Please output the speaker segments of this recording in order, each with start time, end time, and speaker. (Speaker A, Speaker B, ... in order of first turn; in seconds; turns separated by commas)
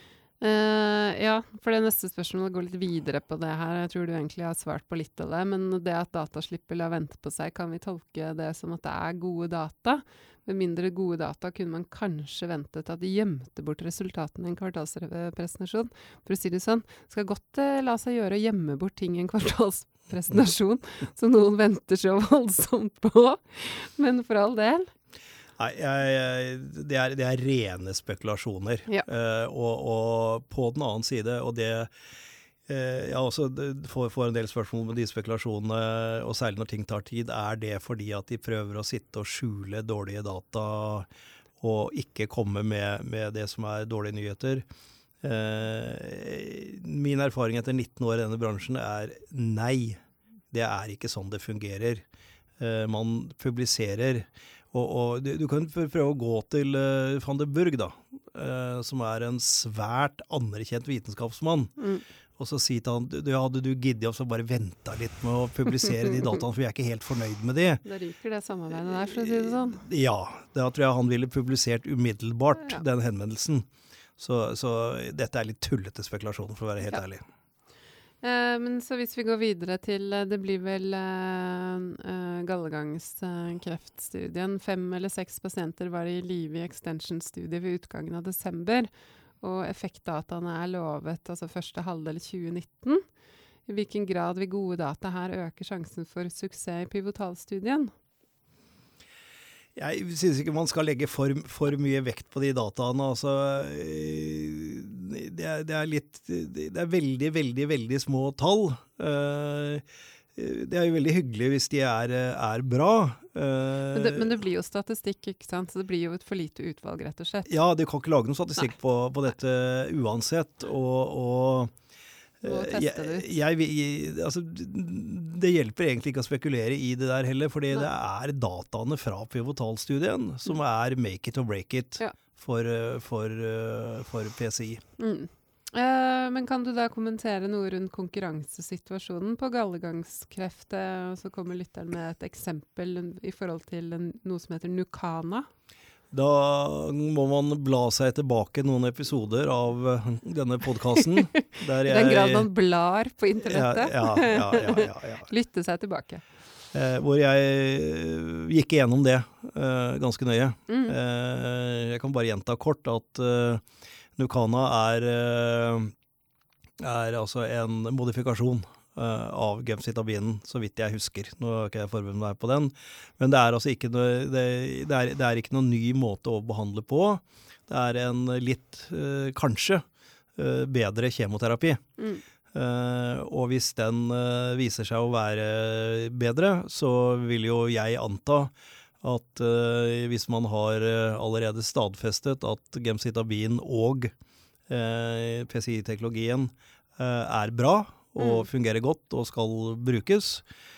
Speaker A: 0.4-24.9, Speaker B: 25.6-31.9, Speaker B: 32.7-41.1, Speaker B: 41.6-44.6, Speaker B: 45.2-52.0, Speaker B: 52.6-61.7, Speaker A: 61.8-62.0, Speaker B: 62.4-67.8, Speaker A: 67.8-69.8, Speaker B: 69.1-77.2, Speaker A: 78.2-88.9, Speaker A: 89.4-93.0, Speaker A: 93.7-97.9, Speaker B: 99.8-109.8, Speaker B: 110.3-114.3, Speaker A: 113.9-117.6, Speaker B: 117.5-121.7, Speaker B: 122.4-134.8, Speaker A: 122.4-123.4, Speaker A: 135.0-145.5, Speaker B: 146.1-152.5, Speaker A: 151.0-156.2, Speaker B: 153.4-155.3, Speaker B: 156.7-163.6, Speaker A: 160.7-161.0, Speaker B: 164.2-165.9, Speaker B: 166.8-179.8, Speaker B: 180.4-181.8, Speaker A: 182.0-182.2, Speaker B: 182.5-194.1, Speaker B: 194.7-200.4, Speaker A: 198.2-198.4